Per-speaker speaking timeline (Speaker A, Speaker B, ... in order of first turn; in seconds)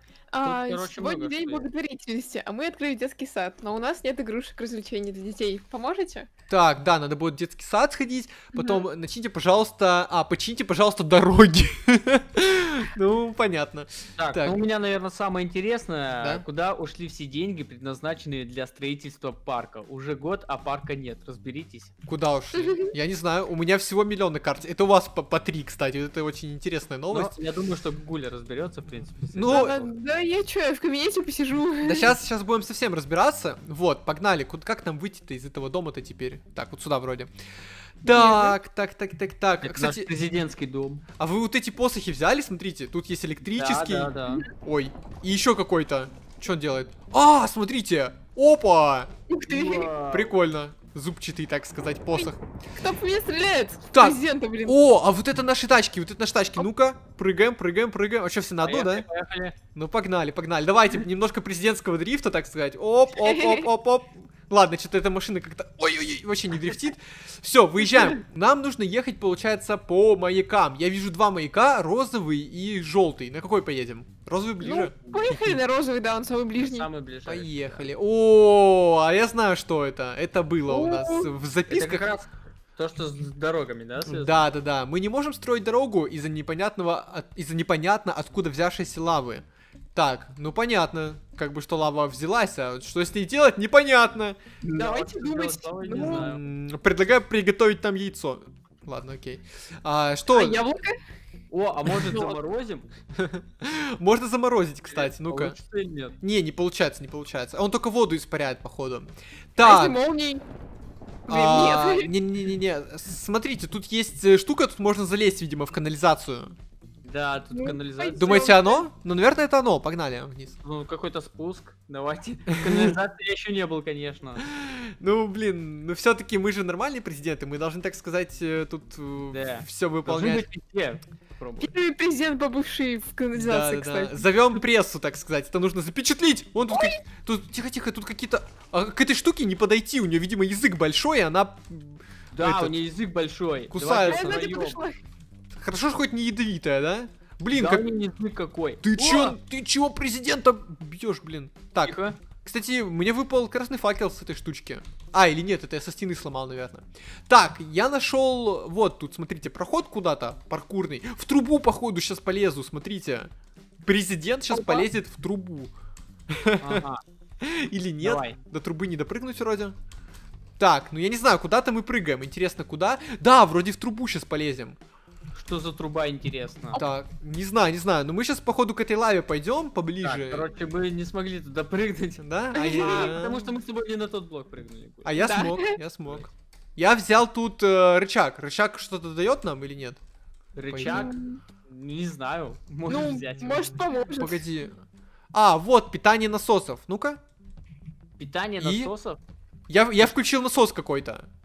Speaker A: 0.3-6.3, 8.5-8.8, 22.6-22.9, 29.5-32.1, 38.0-38.6, 49.3-49.9, 52.1-54.8, 63.1-63.7, 74.6-76.9, 80.7-81.3, 94.8-96.3, 100.3-101.0, 102.1-102.4, 109.6-110.4, 111.3-112.1, 117.5-118.8, 131.6-134.3, 136.7-137.0, 144.0-145.0, 164.5-164.8, 182.6-183.2, 185.2-185.8, 190.8-191.4, 192.9-194.4
Speaker B: 0.4-1.7, 14.2-21.9, 27.1-29.9, 39.6-41.0, 43.6-44.5, 49.5-50.3, 58.6-59.6, 75.0-75.3, 76.6-77.9, 81.7-84.4, 94.6-96.5, 101.5-102.9, 104.9-106.2, 117.0-118.6, 120.6-124.4, 129.3-131.7, 142.3-144.8, 147.5-149.4, 151.8-152.2, 166.6-167.0, 168.0-168.4, 175.3-176.8, 180.0-185.1, 190.6-191.1, 191.7-193.7, 198.2-199.2
Speaker C: 6.5-14.6, 22.1-27.3, 29.3-29.8, 31.8-37.3, 38.0-40.1, 41.2-49.1, 50.1-52.4, 53.9-59.1, 59.7-74.9, 77.2-82.1, 84.0-89.4, 89.9-94.4, 95.9-100.7, 103.2-105.6, 106.2-110.0, 111.3-116.5, 118.2-120.6, 122.6-122.9, 124.6-130.5, 133.3-142.8, 143.7-144.4, 145.6-147.8, 148.8-163.3, 163.9-165.7, 166.3-166.8, 167.4-169.7, 170.6-174.8, 176.7-180.5, 182.2-183.5, 185.1-190.0, 190.7-191.1, 193.6-194.8, 195.3-197.2, 198.6-198.9, 199.7-201.3